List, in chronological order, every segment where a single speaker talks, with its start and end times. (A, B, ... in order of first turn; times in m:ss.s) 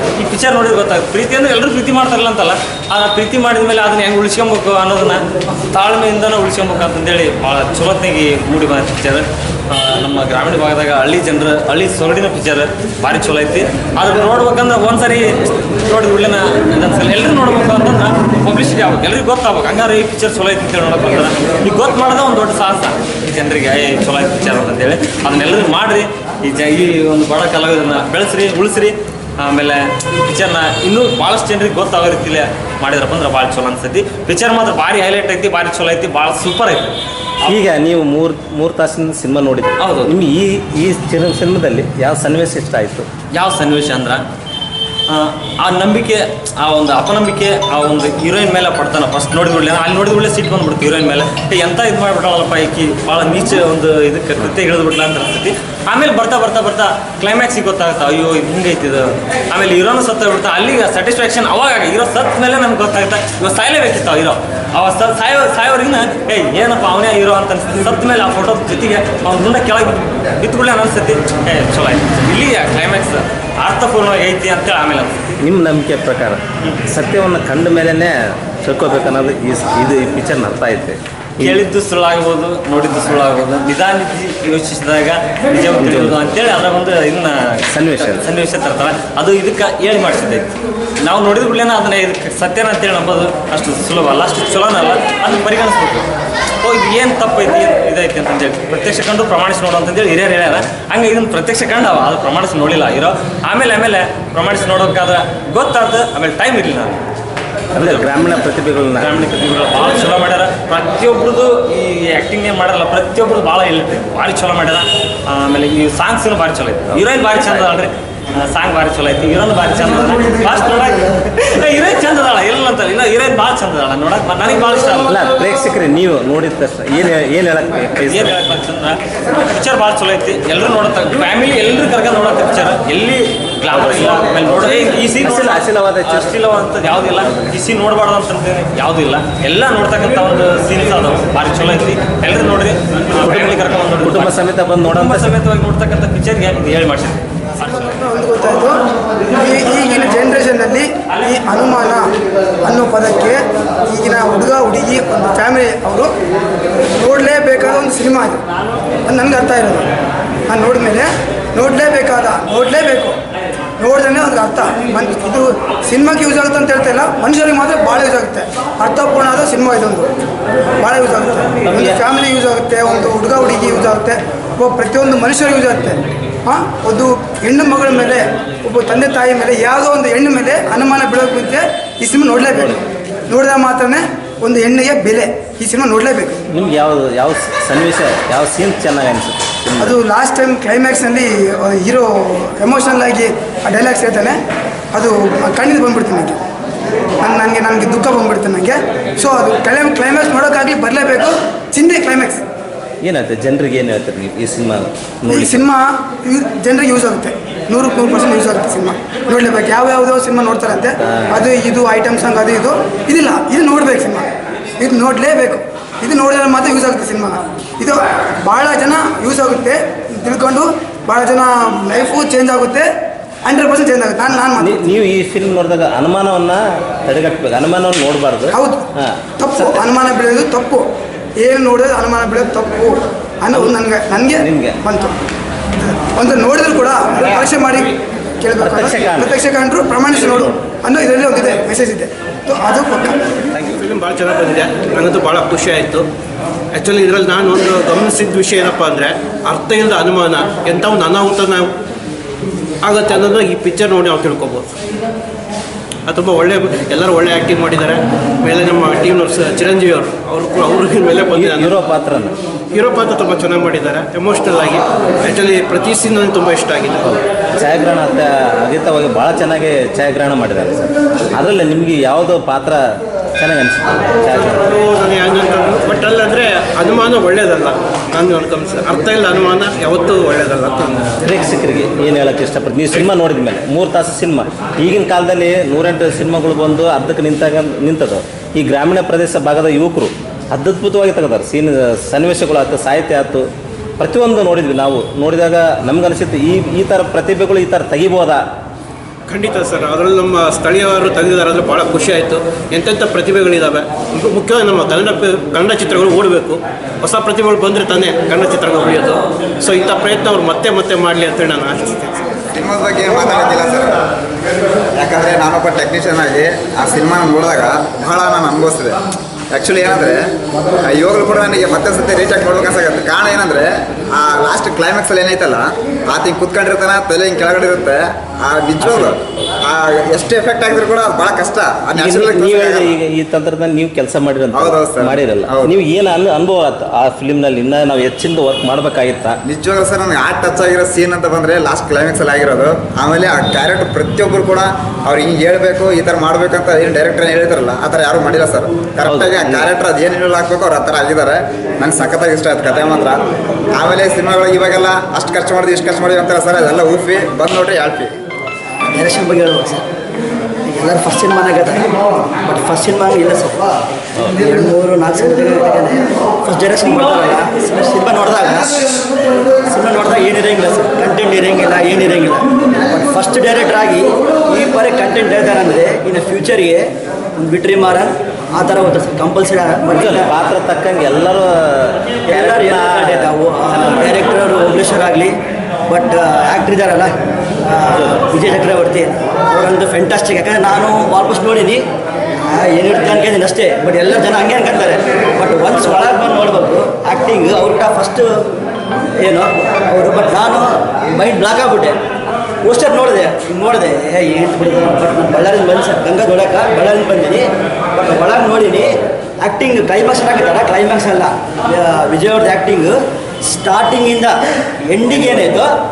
0:00.2-0:15.3 A
0:15.9-0:37.6 A
0:37.5-0:43.1 B
0:39.8-0:40.2 A
0:43.3-0:44.2 A
0:45.1-1:15.2 A
1:15.4-1:21.6 B
1:21.4-1:30.5 A
1:25.8-1:26.2 B
1:27.7-1:28.3 B
1:31.0-1:36.1 A
1:36.6-1:47.0 A
1:47.8-1:48.2 A
1:47.8-1:49.1 B
1:48.9-2:05.1 A
1:56.9-1:57.7 B
2:05.1-2:08.3 B
2:08.1-2:28.0 A
2:13.7-2:16.3 B
2:23.2-2:23.5 B
2:24.0-2:25.3 B
2:28.0-2:28.8 C
2:29.4-2:32.1 C
2:32.6-2:36.1 C
2:37.0-2:38.4 C
2:39.1-2:39.9 C
2:40.5-2:43.2 C
2:43.8-2:50.1 C
2:50.8-3:06.4 C
3:02.5-3:02.8 B
3:06.5-3:09.9 B
3:09.8-3:14.4 C
3:14.9-3:16.4 C
3:17.2-3:22.4 C
3:23.0-3:25.6 B
3:25.3-3:34.2 C
3:34.8-3:42.9 C
3:43.5-3:45.0 C
3:44.6-3:49.8 B
3:48.5-3:48.8 C
3:49.4-3:50.9 C
3:51.4-3:55.2 C
3:54.4-3:54.8 B
3:55.8-4:03.2 C
3:58.6-3:59.3 B
4:03.5-4:03.8 B
4:03.7-4:06.1 D
4:06.7-4:11.7 D
4:12.8-4:14.6 D
4:16.1-4:21.8 D
4:21.3-4:22.3 B
4:22.7-4:27.2 D
4:27.6-4:30.8 B
4:31.3-4:32.8 B
4:33.4-4:34.7 B
4:34.8-4:41.0 D
4:41.2-4:53.5 B
4:54.0-4:58.4 B
4:59.3-5:12.1 D
5:12.5-5:14.0 E
5:15.0-5:19.0 E
5:19.5-5:20.2 E
5:20.8-5:32.9 E
5:28.8-5:29.2 B
5:32.0-5:39.4 B
5:34.5-5:35.7 E
5:39.5-5:53.2 E
5:49.0-5:49.7 B
5:53.8-5:58.1 E
5:59.0-5:59.8 F
6:00.8-6:03.7 F
6:04.4-6:09.0 F
6:09.6-6:16.8 F
6:17.4-6:20.3 F
6:19.9-6:24.1 B
6:22.3-6:25.3 F
6:25.9-6:31.8 F
6:32.6-6:38.3 F
6:39.2-6:42.0 F
6:42.6-6:47.4 F
6:48.0-6:48.9 F
6:49.4-6:55.7 F